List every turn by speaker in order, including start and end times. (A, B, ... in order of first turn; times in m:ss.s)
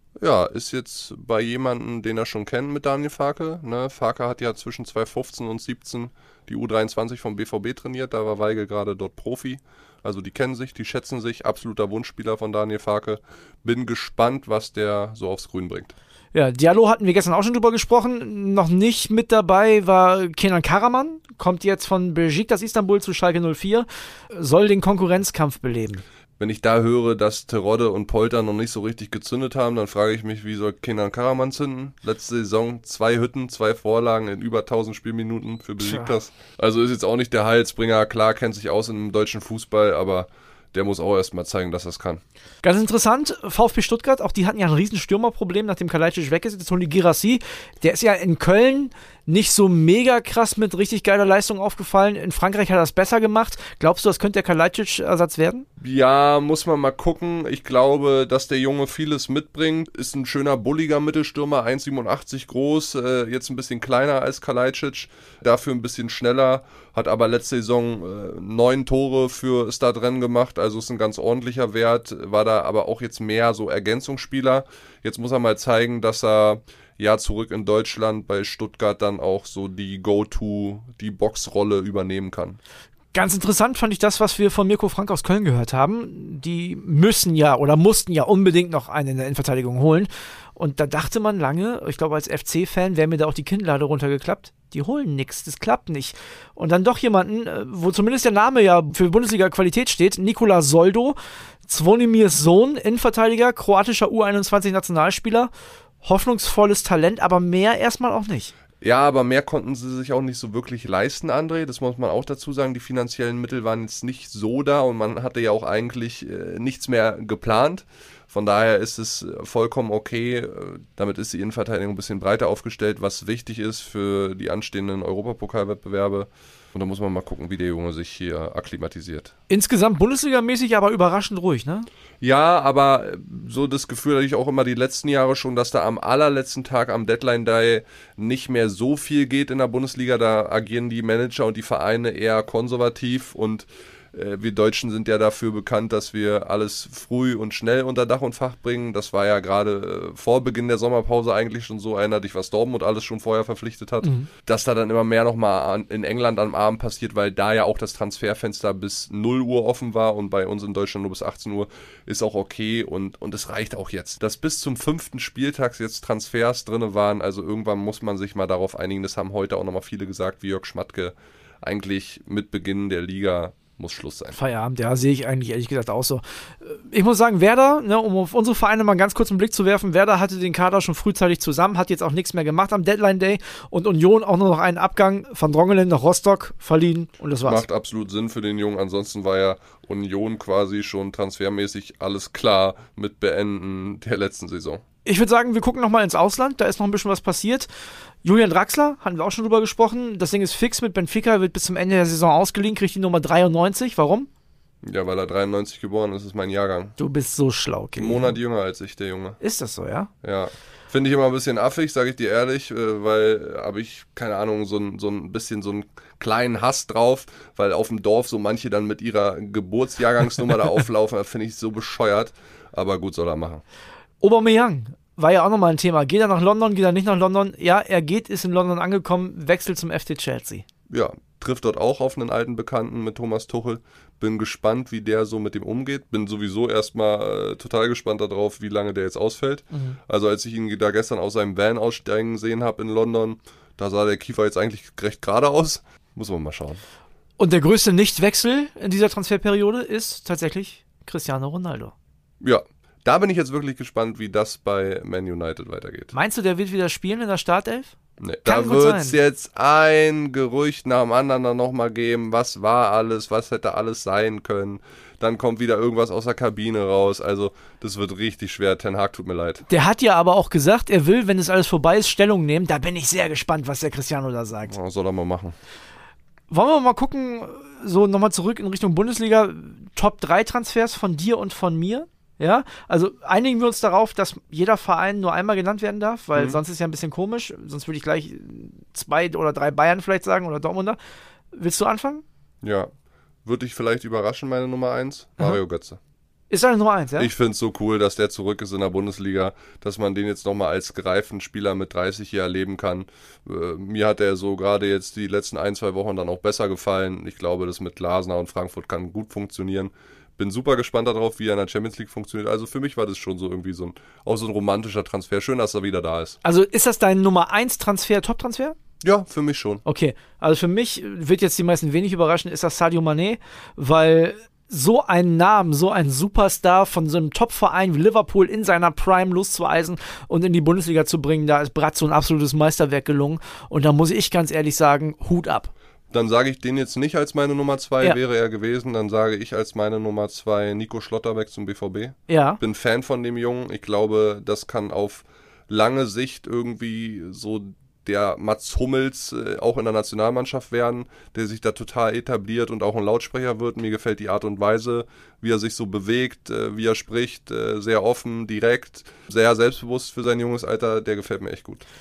0:00.2-0:15.9 A
0:16.3-0:26.0 B
0:26.4-0:42.2 A
0:35.8-0:36.1 B
0:42.6-0:55.6 B
0:55.8-1:22.6 A
1:23.1-1:45.5 B
1:46.0-1:48.5 B
1:48.8-2:09.3 A
2:09.5-2:11.9 B
2:12.2-2:54.4 A
2:34.0-2:34.3 B
2:54.3-3:07.6 B
3:07.4-3:14.8 A
3:15.0-3:17.7 B
3:18.2-3:24.3 B
3:24.8-3:27.0 A
3:27.0-3:28.4 B
3:28.0-3:29.4 A
3:29.4-3:30.1 B
3:30.2-3:43.6 A
3:44.2-3:50.6 B
3:50.9-4:06.8 A
3:59.7-4:00.0 B
4:07.4-4:11.9 B
4:12.4-4:16.1 A
4:16.1-4:17.9 B
4:18.2-4:29.6 A
4:18.4-4:19.2 B
4:29.7-4:34.7 B
4:34.7-4:35.6 A
4:36.5-4:51.0 B
4:51.5-4:52.2 B
4:52.6-4:52.9 A
4:53.4-4:56.0 A
4:56.5-4:57.3 B
4:57.2-5:16.4 A
5:16.4-5:18.8 B
5:19.0-5:19.8 A
5:19.8-5:35.7 B
5:36.1-6:01.9 A
5:42.3-5:42.6 B